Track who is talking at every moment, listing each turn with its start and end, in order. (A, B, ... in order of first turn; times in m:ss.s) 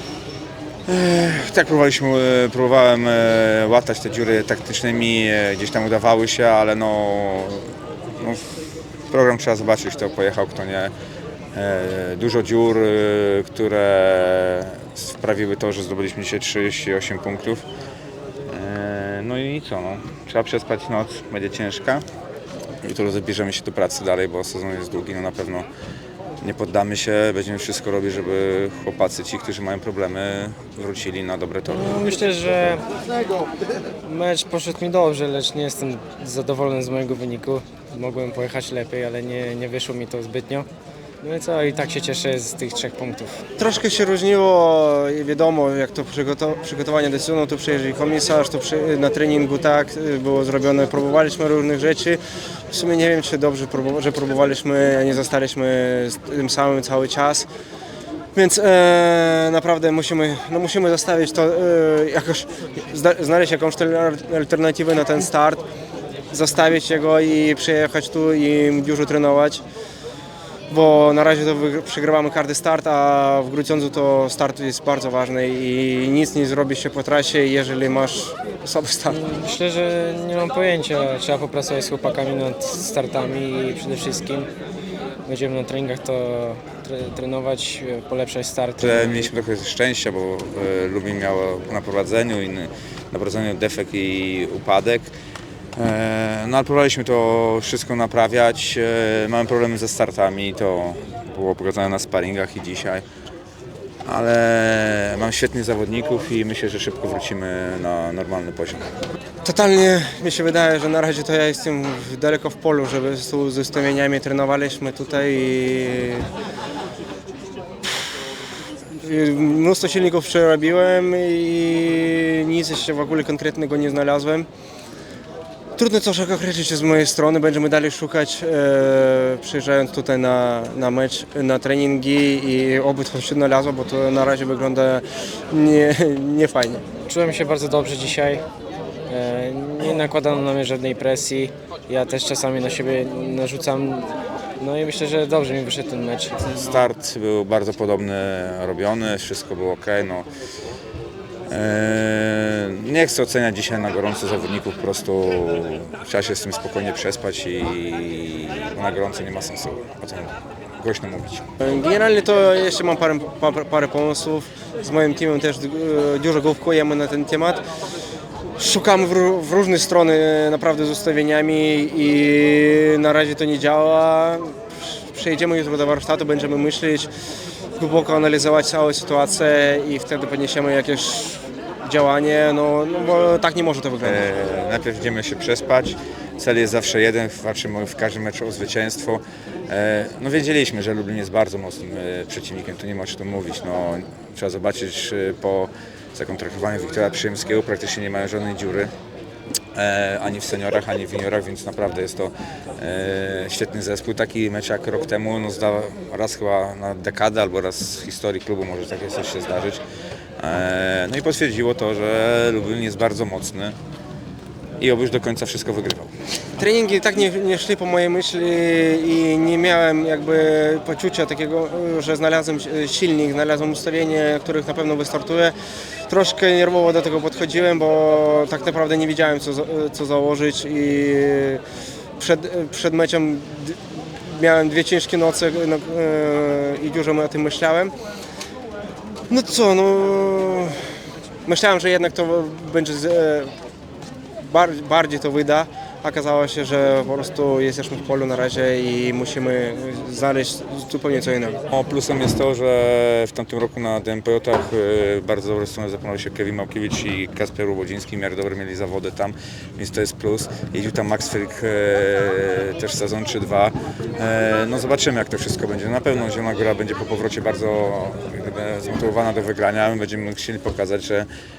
0:00.8-0:08.6 A
0:09.1-0:10.9 A
0:11.5-0:17.6 A
0:18.5-0:22.0 A
0:22.8-0:25.7 A
0:26.4-0:32.1 A
0:31.6-0:32.8 B
0:34.0-0:40.7 B
0:41.2-0:43.4 B
0:43.6-0:57.5 C
0:58.3-1:05.6 C
1:06.3-1:09.6 C
1:10.7-1:19.2 C
1:19.1-1:24.5 B
1:25.2-1:29.3 B
1:28.8-1:35.1 A
1:35.7-1:43.0 A
1:44.0-1:48.9 A
1:49.4-1:56.3 C
1:59.0-2:04.5 C
2:05.8-2:16.8 C
2:17.0-2:18.4 B
2:19.1-2:26.4 B
2:26.4-2:30.3 A
2:31.5-2:41.5 A
2:41.6-2:47.6 C
2:48.6-2:57.1 C
2:57.8-3:04.3 C
3:04.0-3:18.9 A
3:19.7-3:29.8 A
3:30.4-3:33.8 A
3:34.8-3:36.1 A
3:36.6-3:45.5 C
3:46.1-3:51.6 C
3:52.2-3:57.9 C
3:59.3-4:00.9 C
4:01.4-4:03.5 C
4:04.4-4:11.6 C
4:11.7-4:31.3 A